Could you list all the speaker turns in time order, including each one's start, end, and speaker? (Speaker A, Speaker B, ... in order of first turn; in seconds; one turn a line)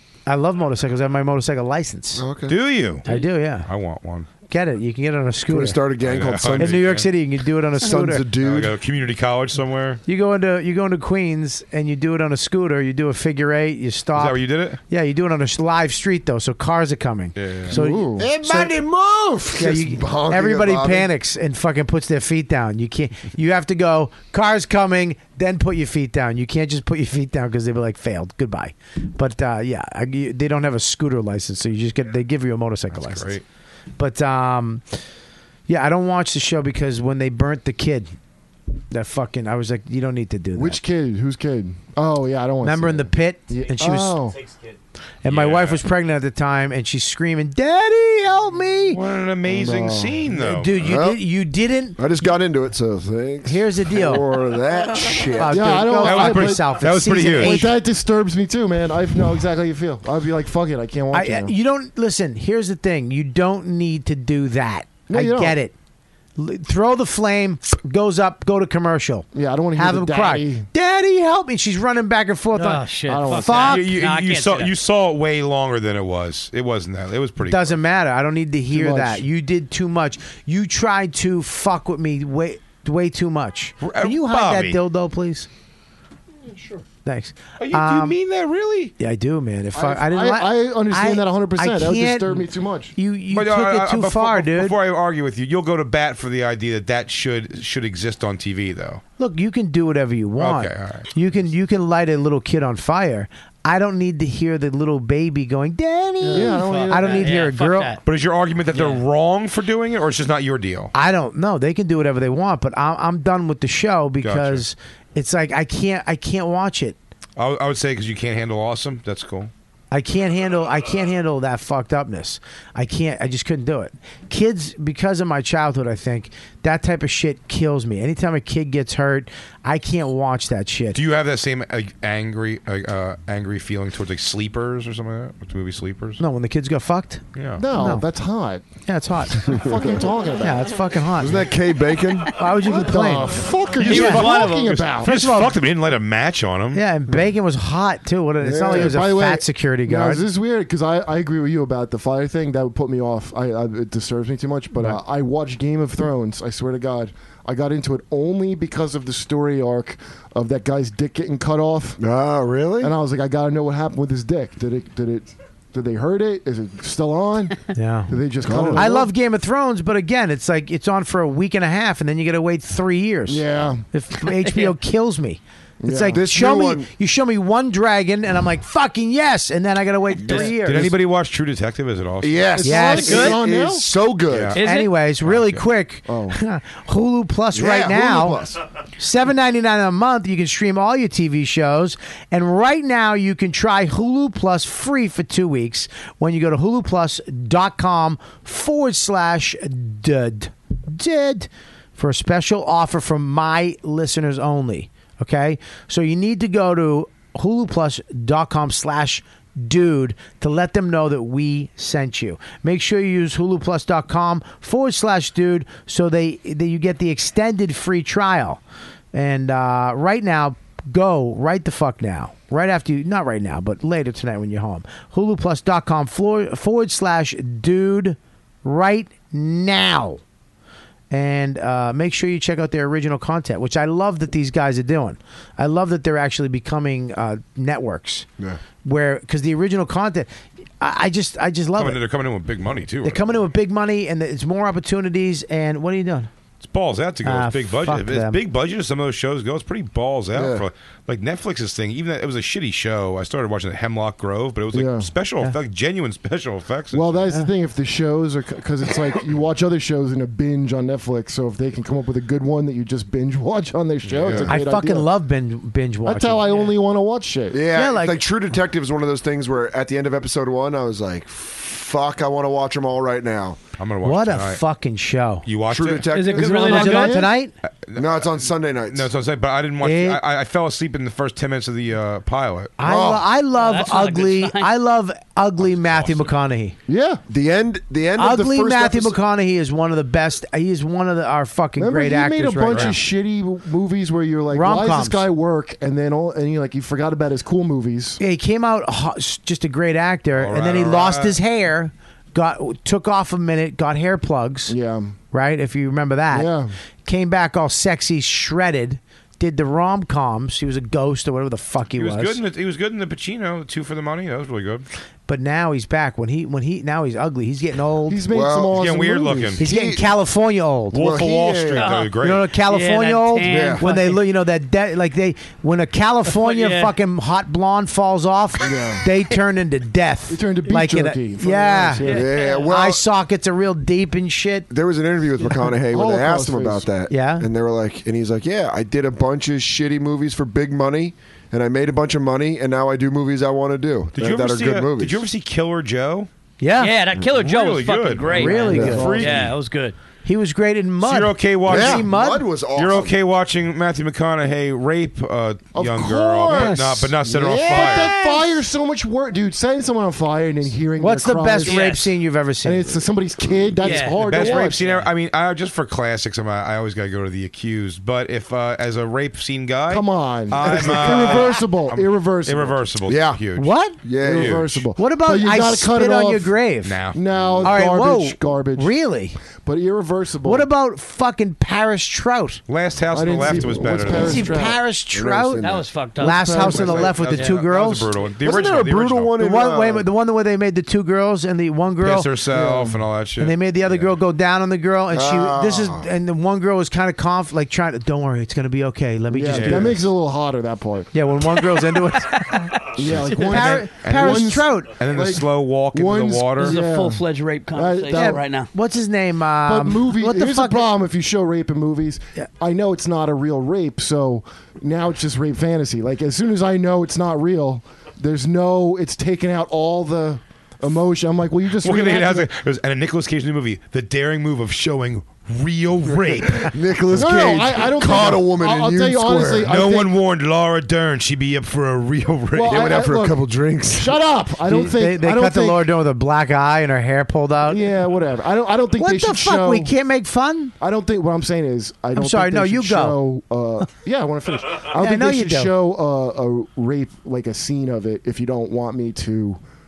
Speaker A: 0.2-2.2
Speaker B: 2.2-2.5
Speaker C: 2.5-3.0
Speaker A: 3.0-3.7
Speaker C: 3.6-4.3
Speaker A: 4.5-5.8
Speaker B: 5.5-7.0
Speaker C: 6.0-7.1
Speaker A: 6.6-8.2
Speaker B: 7.8-8.8
Speaker C: 8.4-10.0
Speaker A: 10.1-18.8
Speaker C: 14.1-14.8
Speaker C: 17.4-17.7
Speaker D: 17.7-18.3
Speaker B: 18.2-21.1
Speaker A: 19.5-33.4
Speaker C: 32.9-33.4
Speaker A: 34.0-34.8
Speaker A: 35.7-38.1
Speaker A: 38.9-40.8
Speaker D: 40.5-44.4
Speaker A: 42.6-44.2
Speaker A: 45.2-49.0
Speaker C: 45.2-45.8
Speaker C: 48.9-50.7
Speaker D: 49.5-50.2
Speaker A: 50.3-52.0
Speaker B: 50.7-51.2
Speaker B: 52.0-55.7
Speaker A: 53.4-54.2
Speaker A: 55.4-57.7
Speaker D: 55.4-56.7
Speaker C: 56.0-57.6
Speaker D: 57.3-61.5
Speaker A: 61.1-65.7
Speaker D: 65.1-65.6
Speaker A: 66.4-73.8
Speaker D: 69.3-70.7
Speaker E: 72.5-74.7
Speaker D: 73.1-73.7
Speaker C: 73.5-77.8
Speaker A: 77.5-85.5
Speaker D: 78.7-79.2
Speaker C: 83.8-84.8
Speaker A: 87.0-88.1
Speaker C: 87.6-88.9
Speaker A: 89.0-94.8
Speaker D: 89.7-92.9
Speaker C: 93.3-99.0
Speaker A: 99.2-108.0
Speaker C: 100.4-101.1
Speaker E: 106.2-108.0
Speaker D: 106.3-107.3
Speaker C: 108.0-110.9
Speaker E: 108.7-109.0
Speaker A: 110.9-117.0
Speaker C: 114.2-114.6
Speaker C: 117.4-119.5
Speaker A: 119.9-131.0
Speaker C: 130.9-136.2
Speaker A: 136.2-138.1
Speaker C: 137.3-137.6
Speaker D: 137.6-138.6
Speaker A: 138.8-139.6
Speaker D: 139.4-140.7
Speaker A: 140.4-141.5
Speaker B: 141.2-142.4
Speaker A: 142.2-144.3
Speaker D: 142.6-145.2
Speaker C: 143.8-146.8
Speaker E: 143.9-144.7
Speaker A: 145.0-145.5
Speaker A: 146.7-150.2
Speaker B: 148.4-149.0
Speaker D: 148.6-162.0
Speaker B: 162.0-162.9
Speaker D: 162.8-169.1
Speaker A: 167.7-168.1
Speaker B: 168.4-168.9
Speaker A: 168.7-180.9
Speaker D: 173.3-173.8
Speaker E: 174.4-174.7
Speaker D: 175.8-176.2
Speaker B: 176.1-176.9
Speaker B: 180.2-180.9
Speaker C: 180.6-182.5
Speaker B: 182.2-184.6
Speaker D: 182.6-183.9
Speaker A: 182.6-183.4
Speaker E: 182.9-183.4
Speaker C: 184.3-184.6
Speaker E: 184.5-184.9
Speaker A: 184.6-188.4
Speaker C: 185.2-185.6
Speaker D: 186.1-186.4
Speaker B: 187.5-188.6
Speaker A: 189.0-218.6
Speaker A: 219.1-230.2
Speaker A: 231.1-238.3
Speaker A: 238.8-242.0
Speaker C: 241.8-243.3
Speaker A: 243.0-246.3
Speaker C: 246.6-257.2
Speaker A: 247.2-248.4
Speaker B: 250.3-250.6
Speaker D: 254.7-255.1
Speaker D: 256.9-265.1
Speaker B: 264.1-264.5
Speaker A: 264.5-266.4
Speaker D: 266.0-267.6
Speaker B: 267.5-273.6
Speaker A: 267.7-268.2
Speaker C: 273.8-274.6
Speaker A: 274.0-275.4
Speaker C: 275.4-276.1
Speaker B: 275.7-277.0
Speaker E: 276.1-277.2
Speaker A: 276.4-277.5
Speaker D: 276.4-277.3
Speaker C: 277.9-282.7
Speaker B: 277.9-279.1
Speaker A: 279.8-280.2
Speaker A: 282.8-286.8
Speaker B: 282.8-283.3
Speaker E: 283.5-284.7
Speaker C: 285.7-286.2
Speaker D: 286.9-287.2
Speaker B: 287.3-289.2
Speaker A: 288.2-293.0
Speaker D: 291.8-298.2
Speaker C: 292.7-292.9
Speaker A: 294.5-295.2
Speaker A: 298.2-304.7
Speaker C: 300.4-301.4
Speaker D: 304.7-305.1
Speaker A: 305.3-306.5
Speaker D: 306.3-306.7
Speaker A: 307.0-312.4
Speaker C: 311.9-314.9
Speaker A: 315.3-318.2
Speaker D: 318.1-319.6
Speaker B: 318.3-318.7
Speaker C: 318.7-319.6
Speaker A: 319.6-321.0
Speaker B: 319.6-320.1
Speaker C: 320.9-322.5
Speaker B: 320.9-322.0
Speaker E: 321.7-324.2
Speaker A: 322.2-334.7
Speaker B: 323.5-323.8
Speaker E: 326.3-326.9
Speaker D: 328.6-329.0
Speaker D: 330.3-332.3
Speaker E: 332.0-332.7
Speaker B: 332.1-333.0
Speaker B: 334.7-345.2
Speaker D: 335.9-336.9
Speaker A: 337.1-337.5
Speaker C: 344.1-346.3
Speaker A: 346.6-347.0
Speaker E: 346.8-349.9
Speaker C: 347.3-349.5
Speaker A: 348.3-349.3
Speaker D: 348.7-349.3
Speaker B: 348.7-349.5
Speaker A: 350.2-352.5
Speaker C: 351.0-352.1
Speaker B: 351.7-353.1
Speaker C: 352.7-358.2
Speaker D: 355.7-361.9
Speaker A: 356.5-357.1
Speaker B: 357.3-357.8
Speaker A: 361.0-362.9
Speaker E: 361.6-362.1
Speaker D: 362.6-364.8
Speaker E: 363.8-365.1
Speaker C: 364.2-373.7
Speaker D: 369.9-372.8
Speaker B: 373.1-373.4
Speaker A: 373.6-374.0
Speaker B: 374.0-374.7
Speaker D: 374.2-376.6
Speaker C: 374.2-374.7
Speaker A: 374.9-377.0
Speaker C: 376.8-377.2
Speaker D: 377.1-378.9
Speaker B: 377.4-377.7
Speaker A: 377.6-379.4
Speaker D: 379.6-380.7
Speaker A: 380.4-382.6
Speaker C: 382.7-384.4
Speaker D: 383.1-384.8
Speaker B: 383.5-385.9
Speaker A: 384.1-385.6
Speaker E: 385.6-387.6
Speaker A: 386.2-388.1
Speaker D: 386.2-387.1
Speaker C: 386.6-389.3
Speaker B: 388.4-390.1
Speaker A: 389.4-392.3
Speaker C: 392.0-394.1
Speaker D: 392.5-393.0
Speaker A: 393.4-400.0
Speaker B: 395.1-396.1
Speaker D: 399.3-401.1
Speaker C: 399.4-400.0
Speaker A: 401.1-404.9
Speaker D: 402.9-408.4
Speaker C: 403.1-406.8
Speaker E: 406.6-408.7
Speaker A: 408.1-410.9
Speaker D: 409.6-422.5
Speaker C: 421.8-426.7
Speaker B: 426.5-429.7
Speaker D: 427.1-430.1
Speaker C: 429.7-433.0
Speaker D: 432.5-435.9
Speaker B: 432.6-434.1
Speaker A: 434.7-437.9
Speaker D: 437.6-439.9
Speaker A: 439.0-440.7
Speaker D: 440.8-449.6
Speaker A: 442.1-443.2
Speaker A: 444.9-445.7